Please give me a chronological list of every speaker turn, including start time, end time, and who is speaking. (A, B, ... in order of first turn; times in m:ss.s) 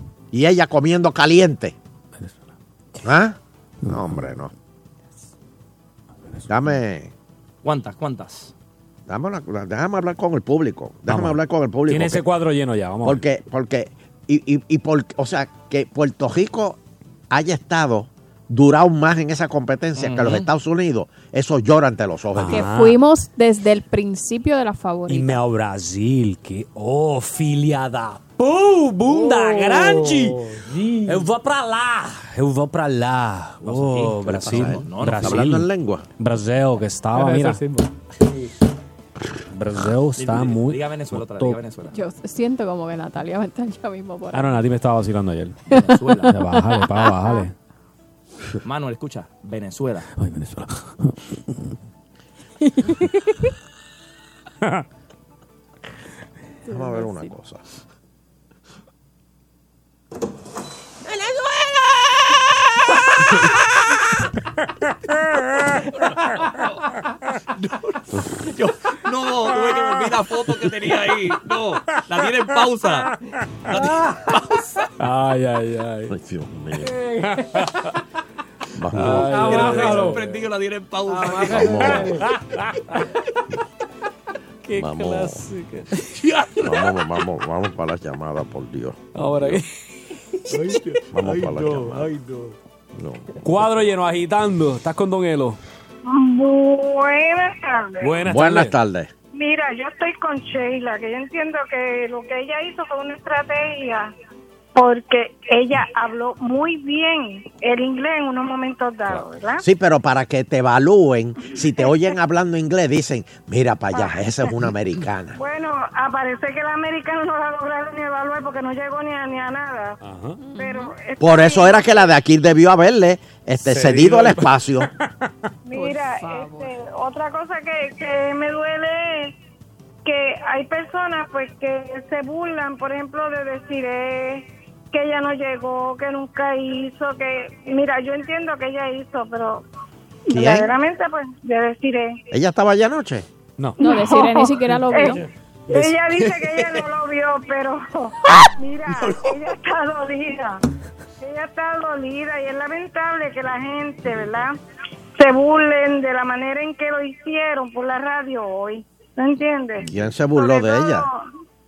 0:00.3-0:01.7 A
0:03.0-0:04.5 A
0:03.8-0:04.3 B
0:06.5-0:07.1 A
0:07.6-0:08.5 C
0:09.1-0:12.2 A
0:11.1-0:11.4 B
0:11.9-0:13.2 B
0:13.0-0:16.8 A
0:17.3-0:22.6 A
0:20.0-0:20.5 C
0:22.3-0:23.0 B
0:22.5-0:25.4 D
0:25.1-0:30.4 B
0:29.0-0:31.3 E
0:31.0-0:35.7 B
0:33.6-0:35.4 C
0:34.3-0:36.0 A
0:36.2-0:37.6 B
0:37.1-0:38.5 E
0:39.5-0:41.6 B
0:40.2-0:41.9 C
0:41.9-0:44.6 D
0:44.3-0:45.6 B
0:45.7-0:46.4 C
0:46.2-0:47.5 B
0:47.0-0:47.4 D
0:48.6-0:50.1 C
0:50.2-0:51.7 B
0:56.7-0:57.3 D
0:56.7-0:57.6 A
1:07.6-1:13.1 C
1:13.7-1:14.8 C
1:15.0-1:16.1 B
1:16.1-1:17.0 A
1:17.1-1:17.3 E
1:17.4-1:17.7 B
1:18.8-1:19.5 A
1:18.9-1:20.0 B
1:19.1-1:20.4 E
1:19.4-1:22.1 C
1:21.1-1:22.3 E
1:21.5-1:22.1 A
1:24.7-1:25.8 B
1:24.7-1:25.4 A
1:26.6-1:29.6 A
1:29.1-1:29.7 B
1:30.5-1:32.5 E
1:31.1-1:32.1 A
1:32.9-1:33.3 A
1:33.4-1:35.6 B
1:36.0-1:38.2 F
1:38.0-1:38.7 B
1:38.2-1:39.1 A
1:39.3-1:44.1 F
1:44.7-1:49.6 F
1:49.6-1:55.4 A
1:55.3-2:00.0 F
2:00.0-2:00.4 B
2:00.4-2:00.9 D
2:00.6-2:02.1 F
2:01.2-2:04.9 A
2:03.6-2:04.5 B
2:05.6-2:09.4 F
2:05.7-2:06.7 D
2:10.0-2:19.6 F
2:20.3-2:22.2 F
2:20.3-2:20.7 A
2:22.3-2:23.3 A
2:23.8-2:30.6 F
2:23.8-2:25.2 D
2:31.2-2:34.5 F
2:35.2-2:41.2 F
2:39.8-2:41.0 A